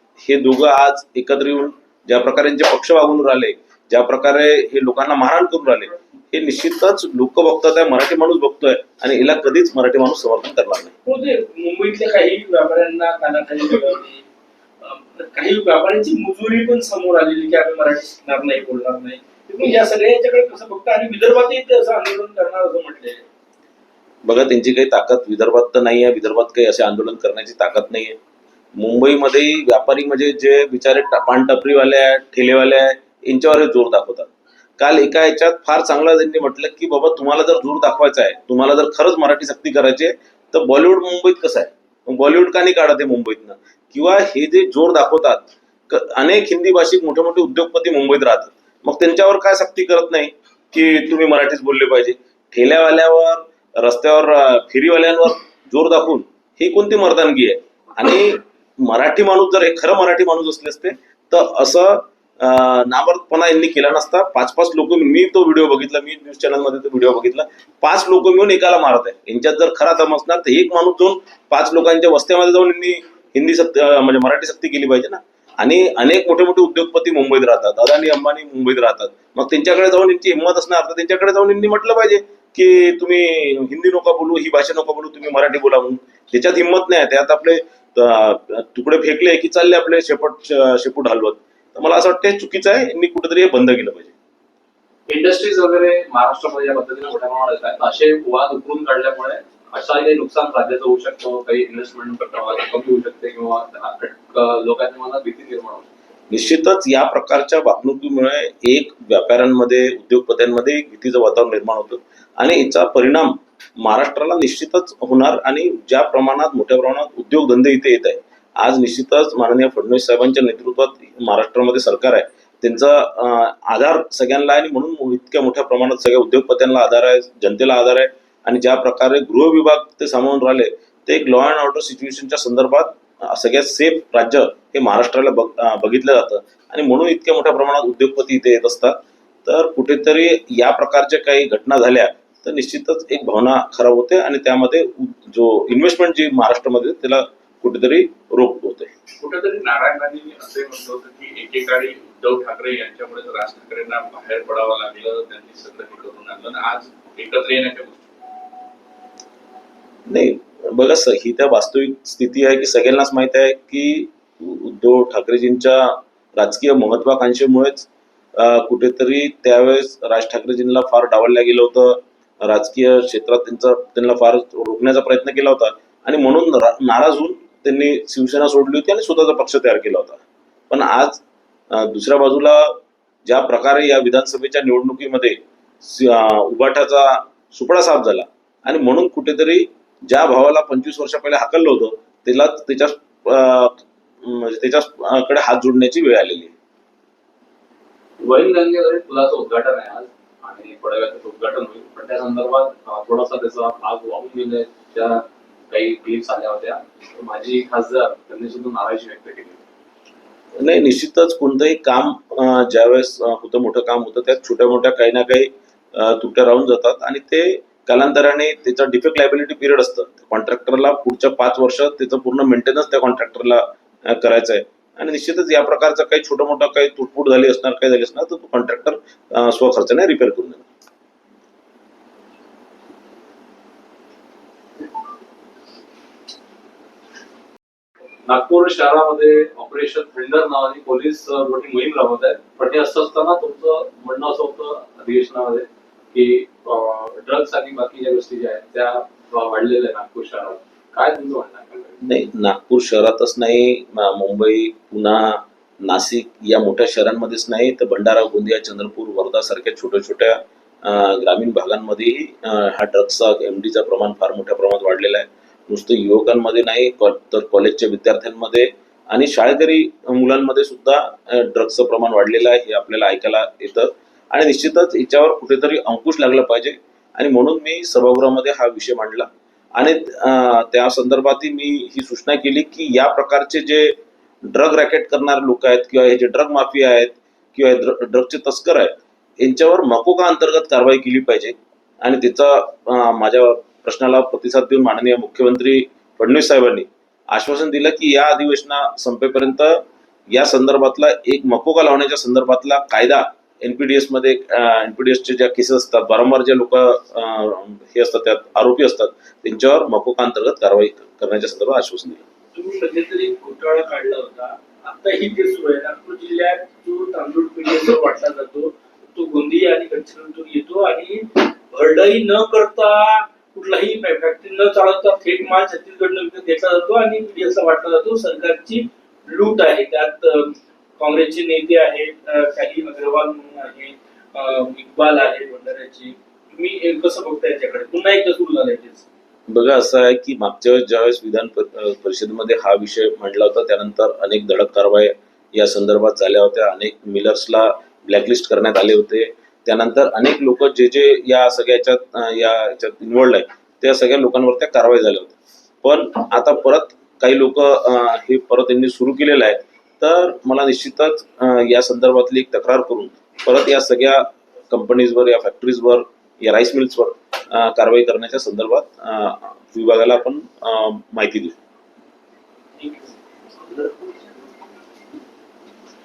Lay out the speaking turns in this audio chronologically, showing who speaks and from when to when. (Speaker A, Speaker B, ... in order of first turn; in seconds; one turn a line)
Speaker A: 0.2-10.9
Speaker B: 11.1-14.2
Speaker B: 14.8-23.2
Speaker A: 24.2-28.2
Speaker A: 28.8-94.1
Speaker C: 95.1-105.9
Speaker A: 106.3-148.9
Speaker D: 149.2-158.0
Speaker A: 160.1-196.5
Speaker C: 198.2-209.6
Speaker A: 210.6-230.7
Speaker C: 238.3-252.0
Speaker A: 252.0-299.8
Speaker A: 300.3-312.3
Speaker B: 312.5-339.1
Speaker A: 339.5-371.6
Speaker B: 372.8-373.1
Speaker B: 373.7-374.2